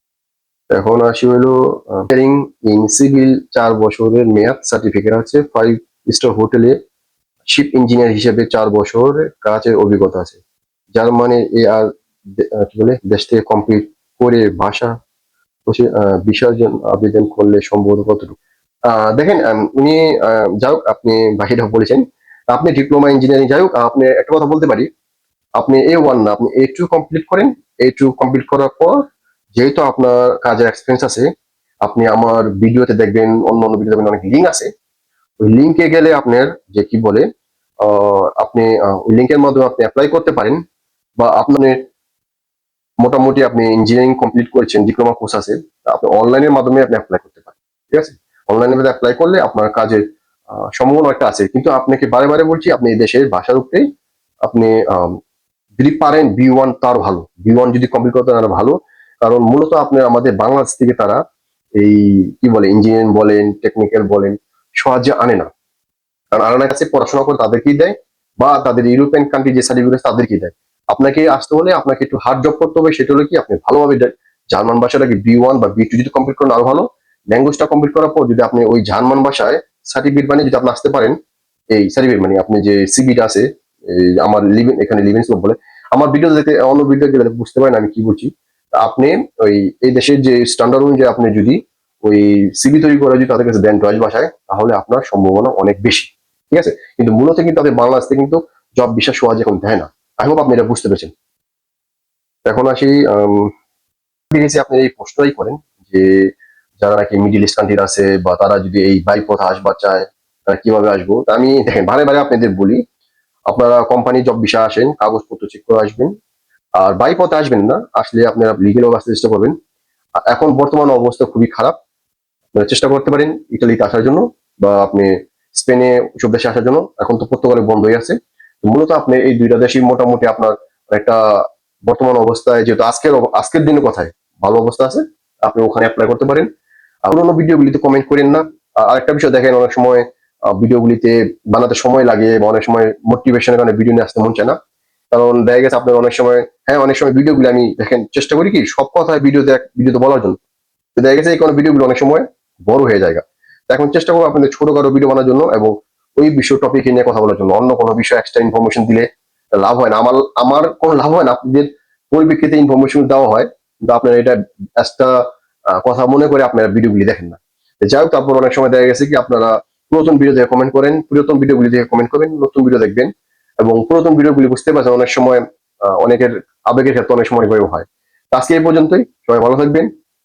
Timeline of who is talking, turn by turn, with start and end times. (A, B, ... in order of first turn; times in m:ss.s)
0:00.7-0:06.8 A
0:07.5-0:10.4 A
0:10.9-0:15.0 A
0:15.7-0:24.9 A
0:25.6-0:31.3 A
0:31.8-0:34.7 A
0:35.4-0:37.2 A
0:37.8-0:40.6 A
0:41.2-0:41.8 A
0:43.0-0:53.8 A
0:54.4-0:55.2 A
0:55.8-1:01.2 A
1:01.8-1:05.5 A
1:06.3-1:21.2 A
1:21.7-1:41.1 A
1:42.4-1:43.5 A
1:44.3-1:52.8 A
1:53.5-1:56.1 A
1:56.8-1:59.5 A
2:00.3-2:01.8 A
2:02.5-2:16.5 A
2:17.0-2:24.6 A
2:25.1-2:30.4 A
2:31.0-2:39.1 A
2:39.6-2:45.2 A
2:45.8-2:53.1 A
2:53.6-2:55.4 A
2:55.9-2:59.9 A